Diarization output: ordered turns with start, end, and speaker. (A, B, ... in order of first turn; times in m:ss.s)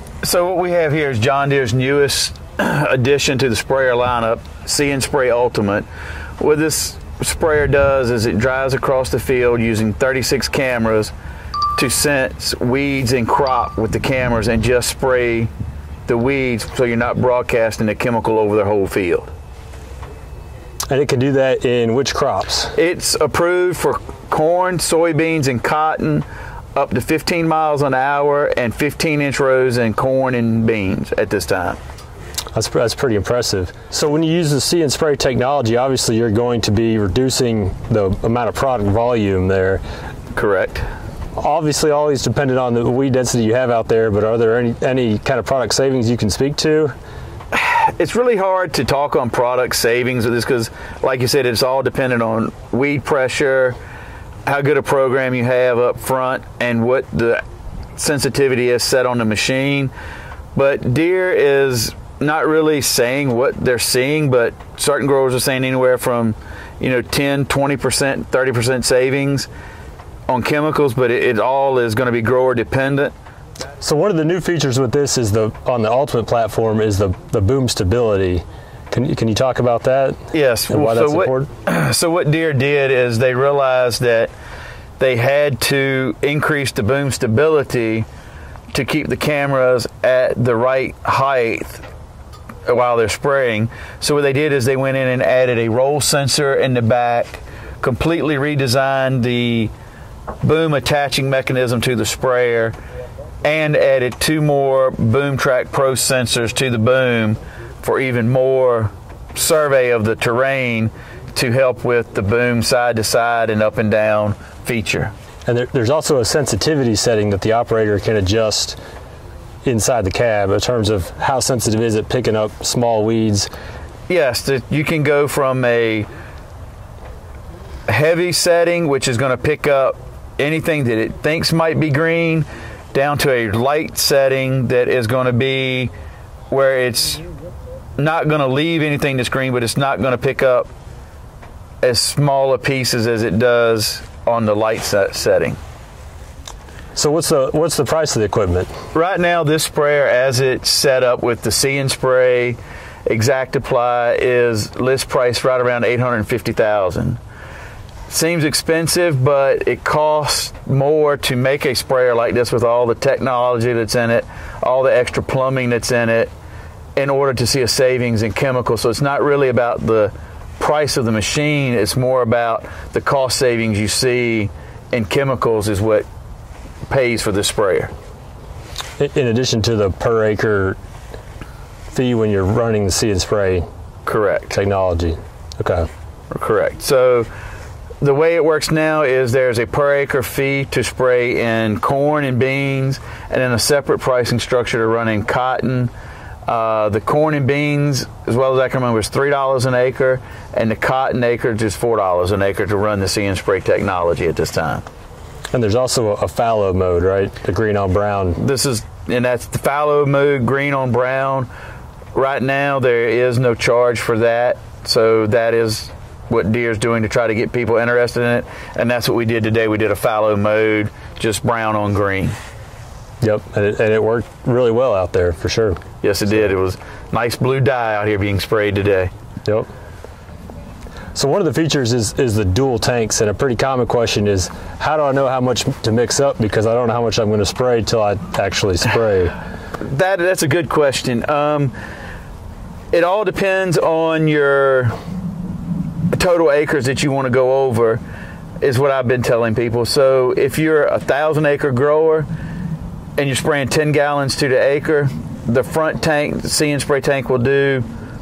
0:00.2-0:05.9 A
0:06.4-0:11.1 A
0:11.8-0:15.5 A
0:16.1-0:19.3 A
0:20.9-0:22.8 B
0:22.8-0:31.8 A
0:32.5-0:39.8 B
0:40.4-0:40.9 A
0:41.4-0:46.9 B
0:47.5-0:53.8 A
0:54.5-0:57.4 A
0:58.0-0:59.9 A
1:00.6-1:09.5 A
1:10.3-1:13.1 A
1:13.8-1:21.5 B
1:20.3-1:24.3 A
1:25.0-1:28.1 A
1:28.7-1:31.8 A
1:32.7-1:39.7 A
1:40.4-1:42.8 A
1:43.4-1:55.1 A
1:55.5-1:58.8 B
1:59.6-2:03.5 B
2:04.1-2:06.1 A
2:07.9-2:15.9 A
2:16.5-2:17.2 A
2:18.0-2:20.7 A
2:21.8-2:25.6 A
2:27.0-2:28.7 B
2:28.9-2:37.2 A
2:38.1-2:46.3 A
2:47.0-2:56.1 A
2:56.9-2:57.9 A
2:59.0-3:00.8 B
3:01.9-3:03.7 B
3:04.1-3:04.5 A
3:04.5-3:05.9 B
3:06.3-3:07.3 A
3:08.0-3:15.9 A
3:16.5-3:24.8 A
3:25.5-3:28.4 B
3:28.4-3:31.5 A
3:32.2-3:42.3 A
3:43.2-3:45.8 B
3:46.0-3:49.1 A
3:51.1-3:59.4 B
3:59.8-4:01.7 A
4:02.9-4:05.0 A
4:06.1-4:08.0 A
4:08.6-4:12.3 A
4:13.2-4:17.8 A